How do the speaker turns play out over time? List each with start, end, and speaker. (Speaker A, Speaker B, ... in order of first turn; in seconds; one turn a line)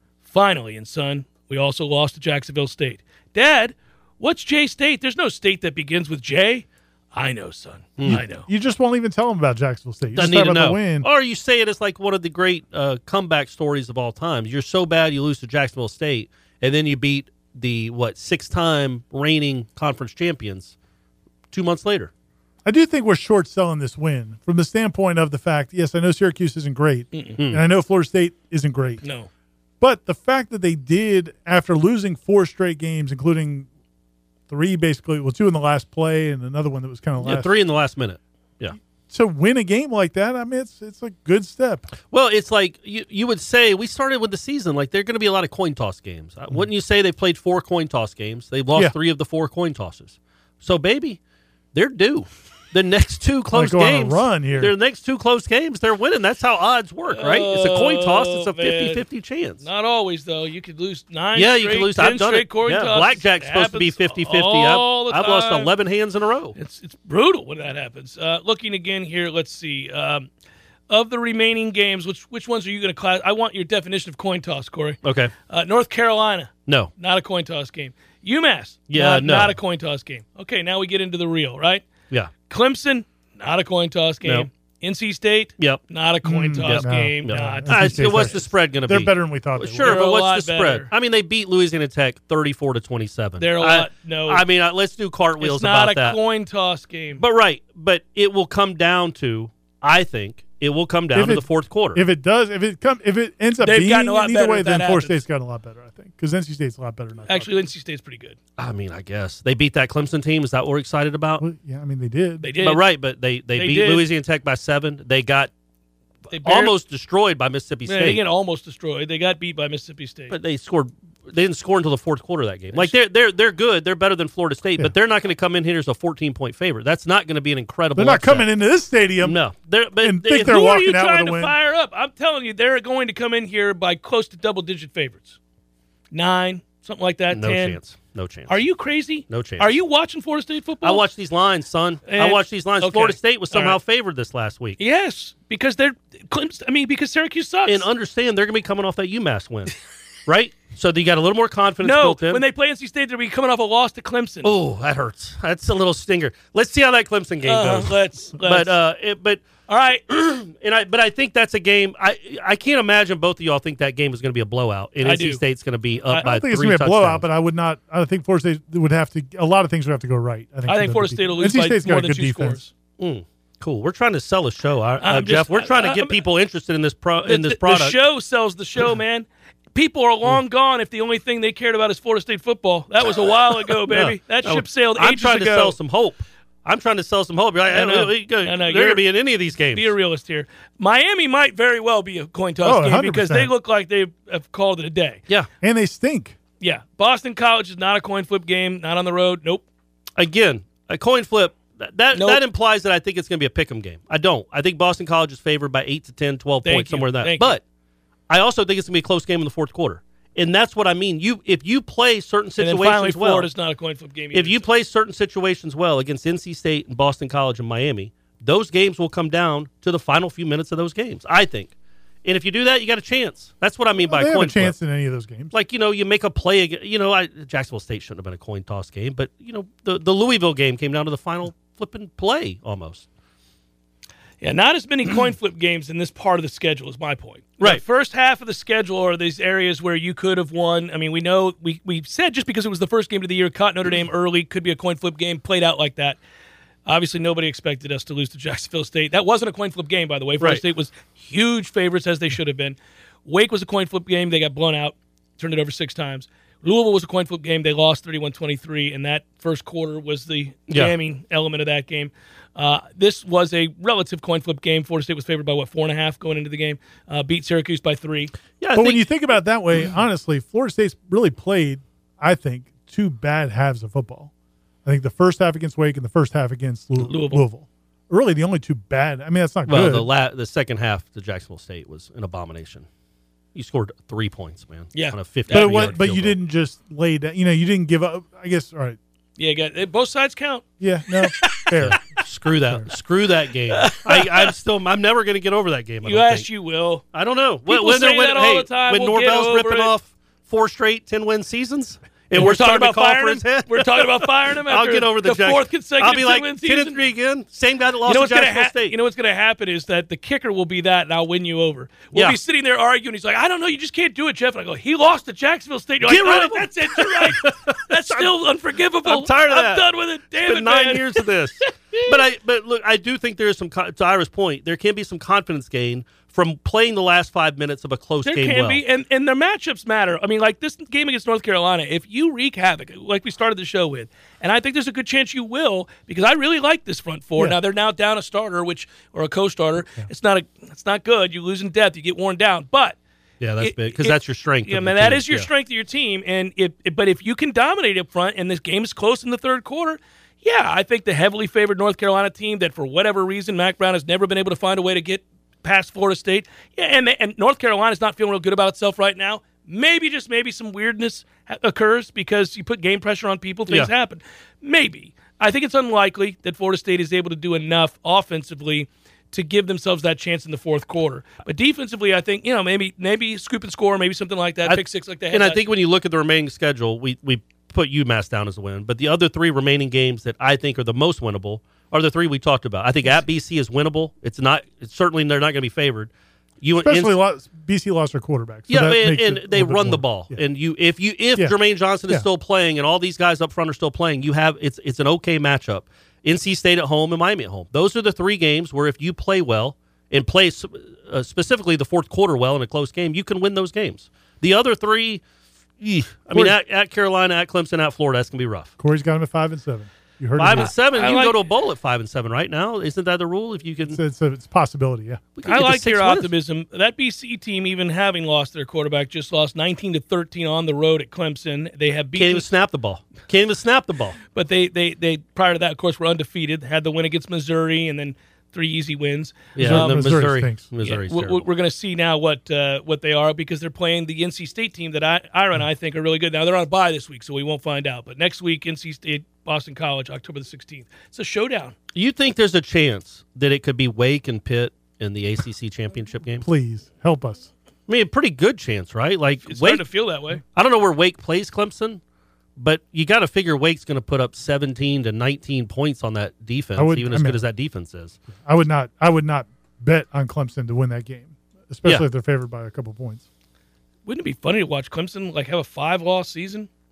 Speaker A: 0.2-8.5
Speaker B: 8.1-11.1
Speaker C: 10.1-20.8
Speaker C: 21.5-22.1
Speaker B: 22.6-29.0
Speaker A: 27.1-27.4
Speaker C: 27.4-27.6
Speaker A: 29.0-29.3
Speaker B: 29.8-33.7
Speaker B: 34.5-37.5
Speaker C: 37.2-38.8
Speaker B: 39.1-41.9
Speaker C: 42.1-51.2
Speaker C: 51.7-59.6
Speaker B: 53.5-54.8
Speaker A: 57.1-59.0
Speaker A: 59.6-65.7
Speaker C: 61.4-66.6
Speaker A: 66.5-70.3
Speaker A: 70.9-88.5
Speaker C: 75.0-75.3
Speaker C: 78.9-79.6
Speaker B: 86.2-90.0
Speaker C: 86.6-96.2
Speaker A: 89.8-90.9
Speaker A: 93.4-94.5
Speaker A: 95.4-97.2
Speaker C: 97.2-102.0
Speaker B: 101.1-107.7
Speaker A: 103.6-105.2
Speaker A: 107.3-108.4
Speaker C: 108.6-111.4
Speaker B: 111.4-112.5
Speaker A: 112.4-112.9
Speaker C: 112.6-115.5
Speaker A: 113.5-114.1
Speaker A: 116.3-116.8
Speaker C: 116.3-118.2
Speaker A: 117.9-120.3
Speaker C: 120.3-128.5
Speaker B: 128.0-129.4
Speaker C: 129.2-130.6
Speaker B: 130.0-131.6
Speaker A: 130.3-135.4
Speaker A: 136.1-137.8
Speaker C: 137.3-138.6
Speaker A: 138.5-141.1
Speaker C: 139.3-139.8
Speaker C: 140.8-144.8
Speaker A: 142.1-143.8
Speaker A: 144.8-147.9
Speaker C: 147.7-152.4
Speaker A: 151.8-154.5
Speaker C: 154.4-159.5
Speaker A: 157.4-158.8
Speaker A: 159.7-160.0
Speaker C: 160.1-167.2
Speaker A: 165.0-165.4
Speaker B: 166.2-172.6
Speaker A: 170.7-172.7
Speaker C: 173.0-178.1
Speaker A: 175.0-176.2
Speaker A: 177.3-185.8
Speaker C: 183.9-189.9
Speaker A: 187.7-189.1
Speaker A: 189.7-195.2
Speaker B: 192.6-193.5
Speaker B: 195.6-196.4
Speaker A: 196.6-199.7
Speaker C: 200.2-207.6
Speaker A: 202.1-202.4
Speaker A: 206.6-207.6
Speaker C: 208.3-213.5
Speaker A: 212.6-214.6
Speaker C: 214.3-221.7
Speaker C: 222.2-224.8
Speaker B: 224.0-225.5
Speaker C: 225.5-233.1
Speaker A: 234.4-246.2
Speaker A: 246.9-268.3
Speaker C: 268.6-269.1
Speaker B: 268.7-274.3
Speaker B: 274.9-280.1
Speaker A: 277.0-277.4
Speaker C: 279.7-282.9
Speaker C: 283.6-286.4
Speaker A: 284.9-286.0
Speaker B: 285.5-289.0
Speaker A: 289.4-290.7
Speaker B: 290.8-292.0
Speaker A: 291.2-291.7
Speaker C: 291.8-296.5
Speaker B: 292.6-292.9
Speaker A: 293.7-294.5
Speaker A: 296.0-297.0
Speaker C: 297.1-309.0
Speaker A: 297.7-299.9
Speaker A: 302.3-307.0
Speaker A: 308.1-321.3
Speaker C: 312.1-312.4
Speaker C: 316.0-318.4
Speaker C: 319.0-328.8
Speaker A: 328.2-343.0
Speaker C: 343.4-345.5
Speaker A: 343.6-375.7
Speaker C: 374.6-386.1
Speaker C: 386.6-387.2
Speaker B: 386.8-390.4
Speaker C: 388.7-405.2
Speaker C: 405.8-408.7
Speaker B: 408.8-410.7
Speaker C: 410.4-414.0
Speaker A: 410.6-411.4
Speaker B: 413.8-415.2
Speaker C: 415.4-416.3
Speaker A: 415.5-422.5
Speaker C: 422.1-424.2
Speaker A: 424.3-430.1
Speaker C: 429.6-431.4
Speaker B: 429.6-430.6
Speaker A: 430.8-441.8
Speaker C: 441.9-446.5
Speaker B: 446.4-447.5
Speaker C: 447.9-449.9
Speaker A: 449.4-450.4
Speaker C: 450.5-452.0
Speaker C: 452.6-458.2
Speaker B: 456.8-457.4
Speaker B: 458.4-463.2
Speaker A: 464.1-466.7